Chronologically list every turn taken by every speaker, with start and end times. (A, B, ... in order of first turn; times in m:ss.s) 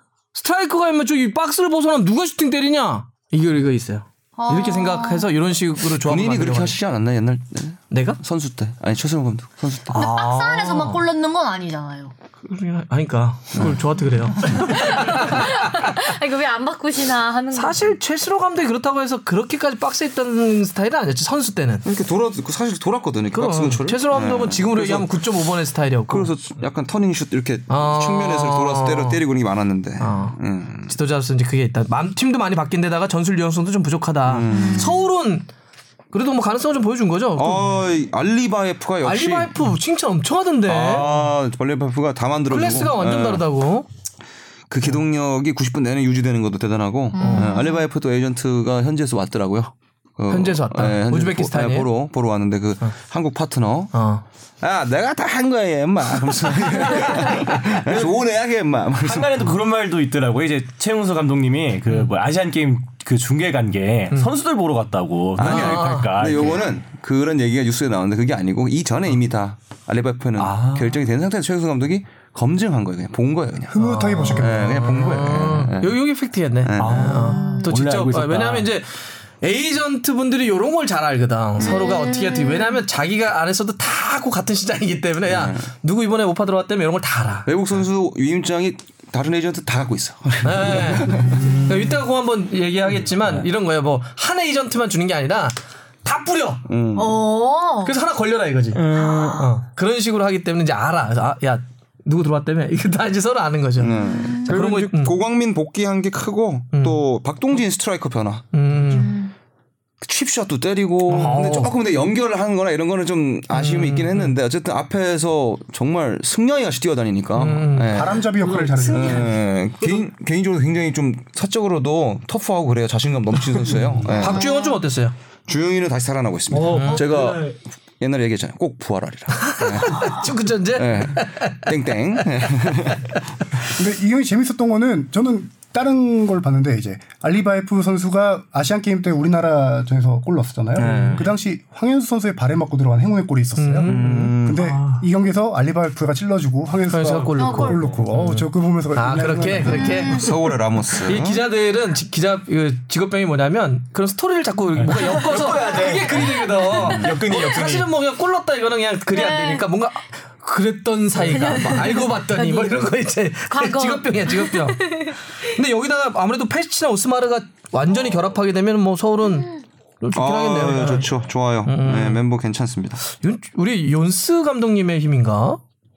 0:00.3-0:06.8 A
0:04.4-0:05.3 B
0:06.0-0:10.0 C
0:07.9-0:08.2 A
0:09.9-0:11.0 A
0:09.9-0:12.1 B
0:12.4-0:16.0 A
0:14.4-0:18.0 B
0:17.5-0:21.8 A
0:21.8-0:25.3 C
0:23.3-0:26.3 A
0:26.1-0:30.9 C
0:27.7-0:29.2 A
0:30.0-0:35.5 A
0:34.2-0:35.0 C
0:34.5-0:35.0 B
0:36.1-0:37.7 A
0:37.4-0:39.7 C
0:39.0-0:41.1 A
0:40.6-0:43.5 C
0:42.5-0:43.9 A
0:44.7-0:54.0 C
0:47.1-0:47.8 B
0:47.2-0:47.6 A
0:50.3-0:51.9 A
0:53.9-0:54.2 A
0:54.6-0:59.5 C
0:57.7-0:58.2 D
0:59.0-1:06.7 D
1:05.4-1:16.0 C
1:05.4-1:06.1 A
1:10.4-1:11.0 D
1:13.7-1:15.1 E
1:13.8-1:27.5 A
1:16.6-1:17.2 C
1:16.8-1:18.7 D
1:17.2-1:17.7 B
1:21.6-1:22.8 B
1:25.3-1:25.6 C
1:27.4-1:31.6 C
1:30.4-1:36.6 A
1:31.3-1:31.7 D
1:36.7-1:37.2 C
1:36.9-1:37.9 B
1:37.8-1:45.1 A
1:38.7-1:39.5 D
1:38.9-1:39.5 B
1:43.8-1:48.5 C
1:44.0-1:44.5 B
1:46.7-1:47.0 A
1:48.5-1:49.2 A
1:48.9-1:49.3 B
1:50.0-1:58.3 C
1:51.1-1:51.7 A
1:51.3-1:51.6 D
1:53.5-1:54.4 A
1:57.3-1:58.1 A
1:57.8-1:59.3 E
1:58.4-2:00.0 D
1:58.9-2:04.4 C
2:03.7-2:04.1 D
2:04.0-2:05.1 A
2:04.1-2:04.8 B
2:05.5-2:13.2 C
2:06.5-2:07.6 D
2:06.7-2:07.0 A
2:09.4-2:11.7 A
2:13.7-2:30.0 E
2:20.8-2:21.2 C
2:23.6-2:25.0 A
2:23.8-2:24.6 C
2:26.9-2:30.3 A
2:27.4-2:27.8 B
2:29.7-2:30.4 B
2:30.0-2:31.4 C
2:31.0-2:51.1 A
2:34.8-2:37.9 D
2:39.1-2:39.7 B
2:41.3-2:42.8 B
2:43.5-2:45.2 B
2:50.1-2:53.0 C
2:51.6-2:52.2 A
2:53.0-2:55.6 A